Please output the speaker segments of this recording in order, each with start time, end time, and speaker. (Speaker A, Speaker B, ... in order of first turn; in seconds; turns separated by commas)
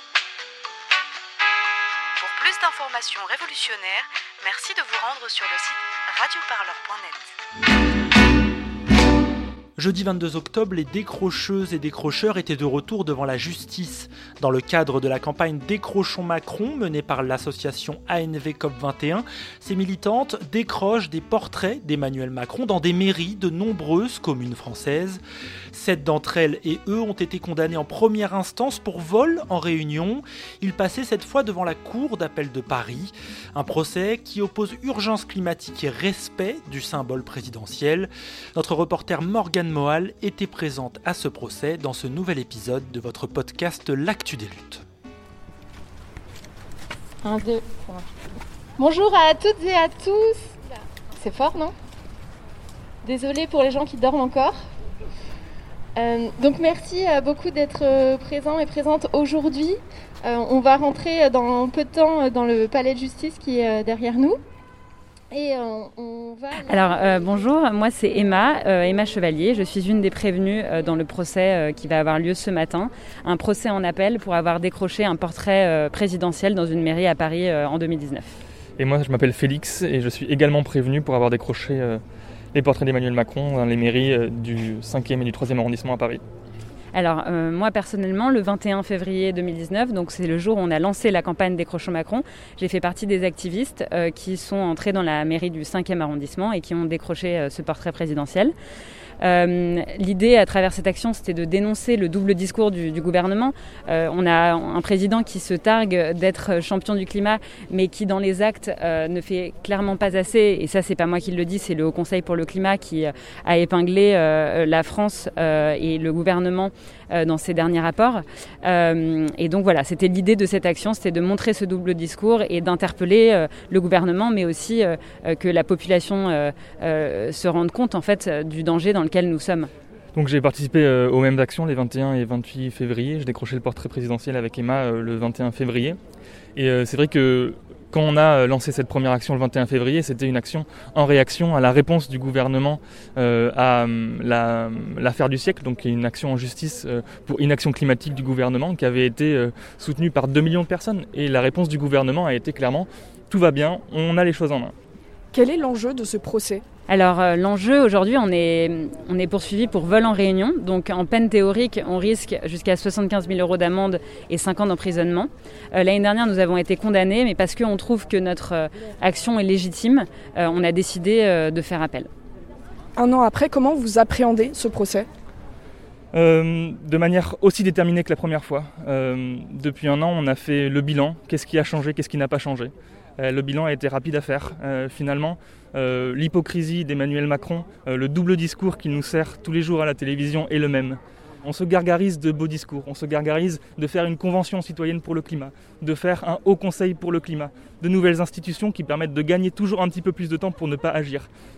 Speaker A: 2.2-7.3, Speaker B: 9.8-25.2, Speaker B: 25.7-44.8, Speaker C: 47.2-48.1, Speaker C: 48.8-50.6, Speaker C: 51.2-51.8, Speaker C: 53.0-54.6, Speaker C: 56.0-64.4, Speaker C: 65.3-67.1, Speaker D: 66.6-78.3, Speaker E: 78.8-82.0, Speaker E: 82.5-86.2, Speaker D: 86.9-98.5, Speaker D: 99.2-129.7, Speaker E: 130.1-136.0, Speaker E: 136.6-154.7, Speaker F: 155.3-156.6, Speaker D: 156.9-172.1, Speaker F: 172.9-175.1, Speaker E: 176.1-201.3